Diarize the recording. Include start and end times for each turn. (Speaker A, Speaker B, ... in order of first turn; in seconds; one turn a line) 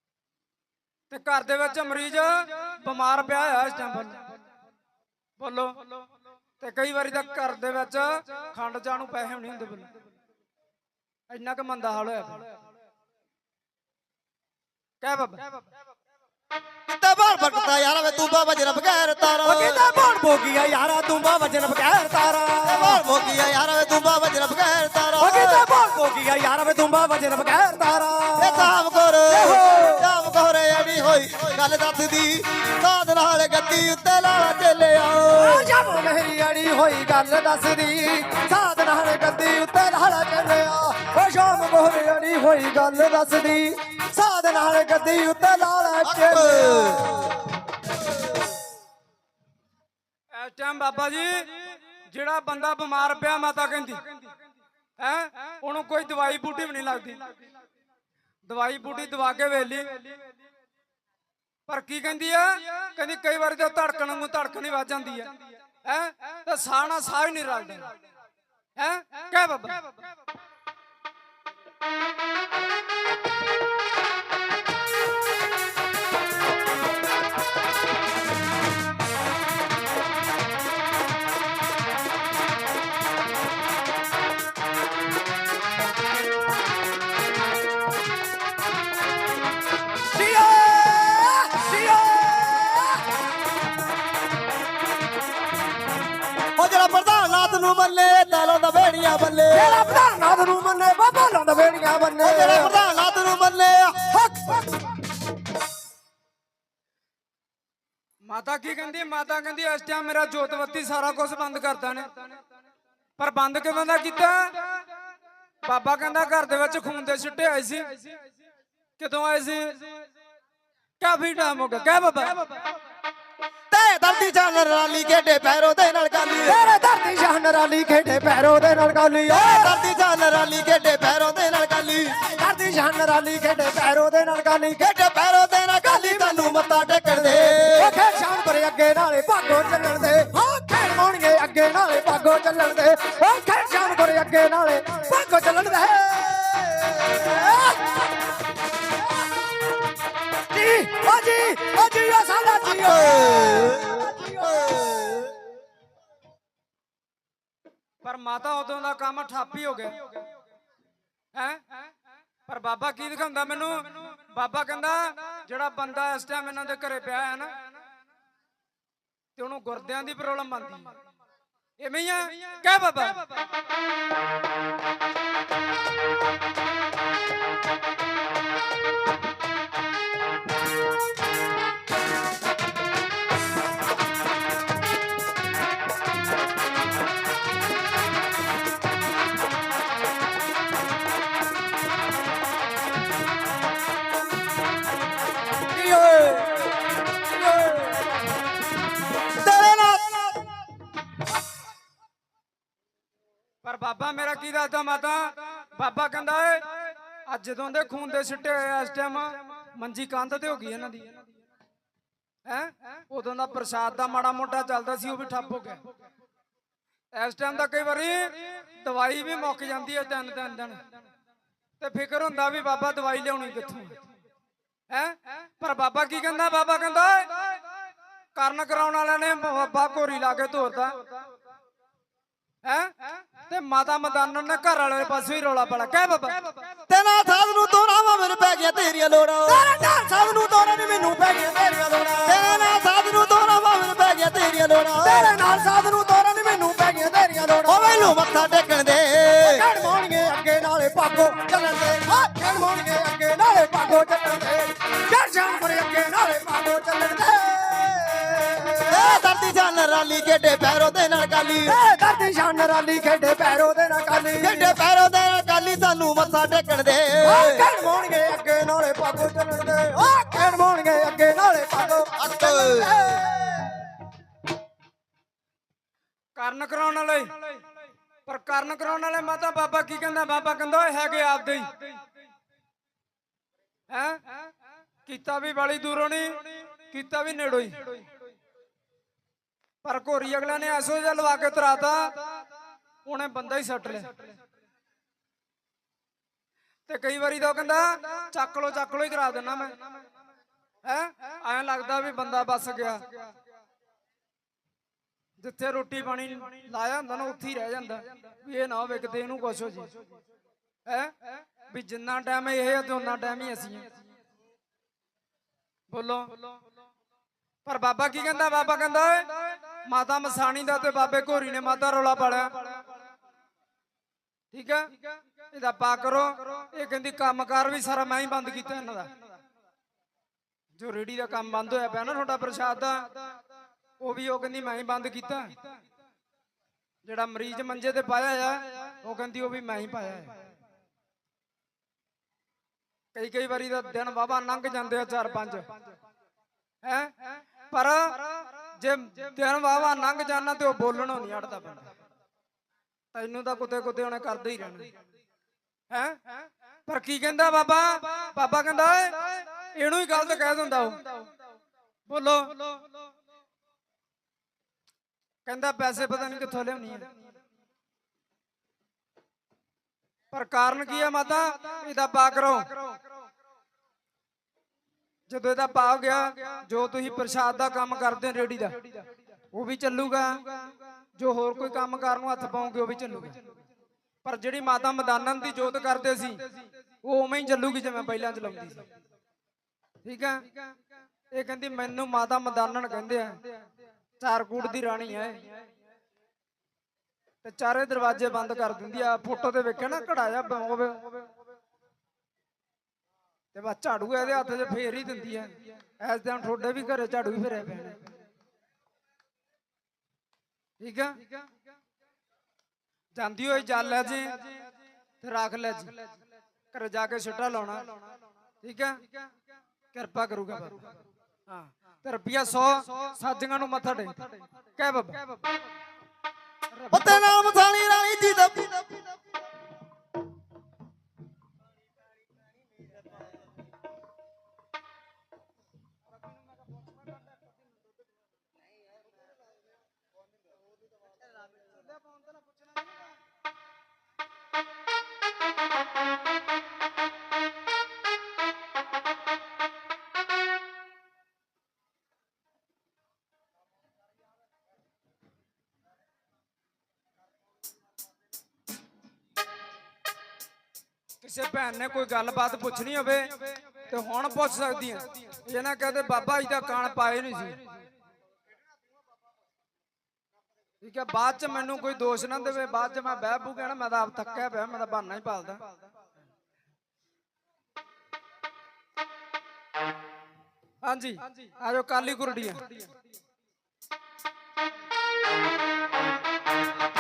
Speaker A: 1.1-4.2
Speaker A: 5.4-5.9
Speaker A: 6.6-9.9
Speaker A: 11.3-12.5
Speaker A: 15.0-15.4
Speaker B: 16.9-19.8
Speaker C: 19.4-23.0
Speaker B: 22.6-25.7
Speaker C: 25.2-28.7
Speaker B: 28.4-35.7
Speaker C: 29.3-30.1
Speaker C: 35.3-47.4
Speaker B: 46.0-47.4
Speaker A: 50.3-54.1
Speaker A: 55.0-57.2
Speaker A: 58.4-60.2
Speaker A: 61.7-67.9
Speaker A: 68.8-69.9
Speaker C: 90.1-93.2
Speaker B: 96.5-99.9
Speaker C: 99.5-102.8
Speaker B: 102.2-104.1
Speaker C: 104.1-104.9
Speaker A: 108.2-112.1
Speaker A: 113.2-114.8
Speaker A: 115.6-118.0
Speaker A: 119.0-120.0
Speaker A: 121.0-122.6
Speaker B: 123.7-126.6
Speaker C: 126.4-129.8
Speaker B: 129.3-132.2
Speaker C: 132.2-134.8
Speaker B: 134.8-138.0
Speaker C: 135.9-148.2
Speaker C: 150.5-154.8
Speaker B: 152.8-155.3
Speaker A: 158.0-160.2
Speaker A: 161.3-161.8
Speaker A: 162.5-167.5
Speaker A: 169.3-170.9
Speaker A: 171.8-173.4
Speaker B: 195.7-196.7
Speaker B: 197.6-197.9
Speaker B: 199.4-200.5
Speaker A: 203.6-211.2
Speaker A: 212.5-215.8
Speaker A: 217.1-220.8
Speaker A: 221.8-224.0
Speaker A: 224.9-227.6
Speaker A: 228.3-231.0
Speaker A: 232.6-236.4
Speaker B: 236.9-239.6
Speaker C: 239.4-242.7
Speaker B: 242.2-245.3
Speaker C: 245.0-248.2
Speaker B: 247.7-249.7
Speaker C: 249.4-259.2
Speaker B: 258.9-261.8
Speaker C: 261.6-264.8
Speaker B: 264.4-267.6
Speaker C: 267.2-273.9
Speaker B: 272.2-273.2
Speaker A: 276.4-277.6
Speaker A: 278.2-281.9
Speaker A: 283.9-284.3
Speaker A: 285.1-288.1
Speaker A: 289.8-292.3
Speaker A: 293.0-294.1
Speaker A: 296.9-299.8
Speaker A: 300.8-303.2
Speaker A: 305.4-310.0
Speaker A: 310.9-313.9
Speaker A: 315.9-316.4
Speaker A: 317.6-322.8
Speaker A: 324.5-325.0
Speaker A: 325.5-329.1
Speaker A: 330.8-333.1
Speaker A: 334.0-335.5
Speaker A: 337.1-340.4
Speaker A: 343.1-345.7
Speaker A: 346.8-351.9
Speaker A: 353.1-354.9
Speaker A: 355.9-361.2
Speaker A: 362.1-362.8
Speaker A: 365.5-367.1
Speaker A: 370.3-372.8
Speaker A: 375.3-379.0
Speaker A: 379.5-380.6
Speaker A: 381.2-383.4
Speaker A: 384.2-386.5
Speaker A: 387.0-388.9
Speaker A: 390.1-390.6
Speaker A: 391.3-393.4
Speaker A: 394.2-395.6
Speaker A: 397.4-401.3
Speaker A: 403.5-408.0
Speaker A: 410.8-411.2
Speaker A: 413.1-414.6
Speaker A: 415.2-416.0
Speaker A: 416.7-417.9
Speaker A: 418.6-419.1
Speaker A: 419.9-420.9
Speaker A: 421.5-425.3
Speaker A: 426.7-427.3
Speaker B: 426.9-429.1
Speaker A: 461.2-467.6
Speaker A: 470.8-475.7
Speaker A: 480.8-482.9